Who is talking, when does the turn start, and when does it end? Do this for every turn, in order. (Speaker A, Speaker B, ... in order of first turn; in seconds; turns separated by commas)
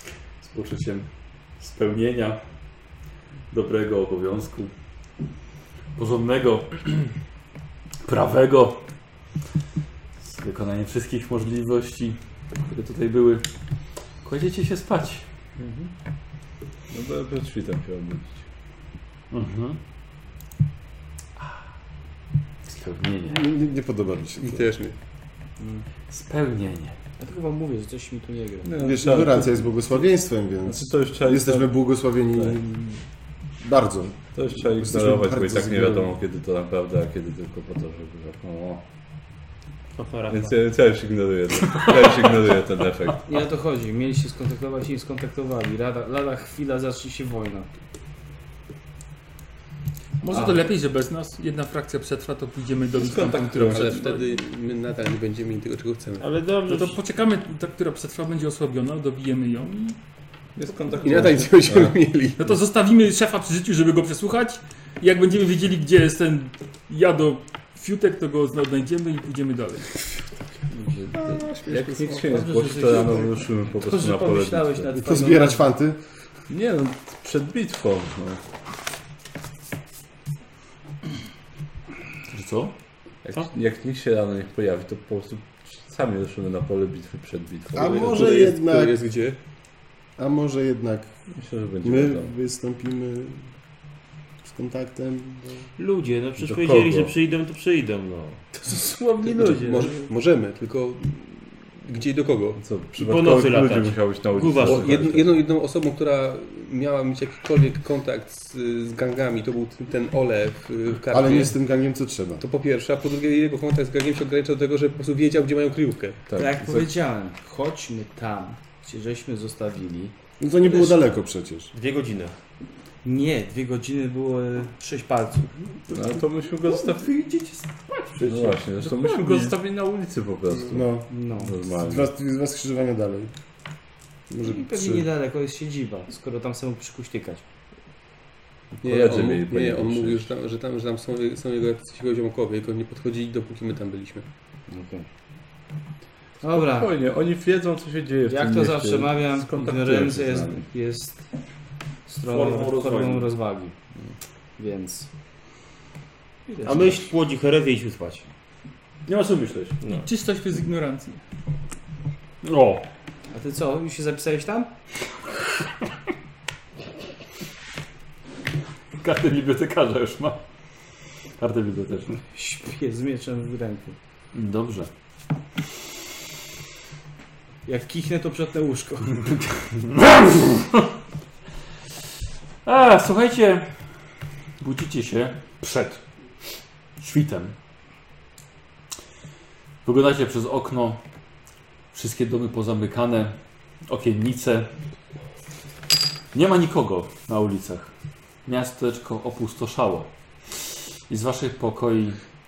Speaker A: 0.4-2.4, Speaker A: 3.5-4.7, Speaker A: 6.0-7.1, Speaker A: 8.0-8.8, Speaker A: 10.2-13.4, Speaker A: 14.2-15.2, Speaker B: 15.6-15.9, Speaker B: 16.9-18.4, Speaker A: 19.3-19.8, Speaker A: 22.6-23.4, Speaker C: 23.2-24.6, Speaker D: 24.4-24.9, Speaker E: 25.6-25.8, Speaker A: 26.1-26.9, Speaker E: 27.2-28.7, Speaker B: 28.6-30.0, Speaker C: 28.8-33.0, Speaker B: 30.6-31.8, Speaker B: 32.3-32.6, Speaker C: 33.6-36.1, Speaker B: 34.3-38.8, Speaker F: 40.0-40.6, Speaker B: 40.3-43.2, Speaker E: 43.2-47.7, Speaker G: 50.2-54.2, Speaker E: 50.3-50.6, Speaker B: 52.9-54.2, Speaker D: 53.7-56.3, Speaker F: 56.2-57.0, Speaker G: 56.6-60.0, Speaker B: 60.5-61.9, Speaker D: 61.0-62.5, Speaker G: 62.4-69.9, Speaker B: 70.8-74.9, Speaker D: 71.1-72.3, Speaker E: 72.2-75.7, Speaker C: 75.0-76.0, Speaker B: 76.5-78.4, Speaker A: 82.3-82.7, Speaker B: 83.2-88.4, Speaker C: 87.7-88.9, Speaker D: 87.8-89.4, Speaker C: 90.2-91.2, Speaker B: 91.3-92.3, Speaker C: 91.8-93.5, Speaker C: 94.4-95.7, Speaker F: 95.8-98.5, Speaker B: 96.4-97.1, Speaker E: 99.0-99.9, Speaker D: 99.2-102.6, Speaker B: 102.6-105.3, Speaker F: 103.0-105.0, Speaker D: 104.6-111.5, Speaker C: 111.1-112.4, Speaker D: 112.4-116.2, Speaker B: 116.3-117.0, Speaker E: 116.3-120.2, Speaker C: 120.4-121.7, Speaker F: 121.7-122.3, Speaker E: 123.0-125.5, Speaker B: 125.9-127.1, Speaker A: 126.7-128.6, Speaker B: 128.2-132.1, Speaker C: 130.7-131.1, Speaker E: 131.1-131.6, Speaker C: 131.8-133.3, Speaker C: 134.3-135.1, Speaker E: 134.4-137.4, Speaker B: 138.8-140.3, Speaker D: 138.8-144.2, Speaker E: 144.7-145.1, Speaker E: 146.4-146.9, Speaker B: 146.4-150.7, Speaker E: 148.3-151.2, Speaker E: 152.1-153.8, Speaker A: 152.2-153.3, Speaker E: 154.6-155.1, Speaker E: 156.5-157.1, Speaker F: 156.6-158.3, Speaker A: 159.1-159.8, Speaker F: 159.8-160.1, Speaker G: 159.9-161.2, Speaker A: 162.4-162.8, Speaker E: 163.3-164.7, Speaker A: 169.0-170.4, Speaker A: 171.4-172.2, Speaker E: 172.3-174.0, Speaker A: 174.3-174.9, Speaker E: 177.7-179.3, Speaker A: 179.2-180.9, Speaker A: 182.6-183.7, Speaker A: 184.6-186.0, Speaker A: 187.0-187.5, Speaker A: 189.8-191.0, Speaker A: 191.9-194.7, Speaker A: 196.3-197.9, Speaker A: 198.4-202.2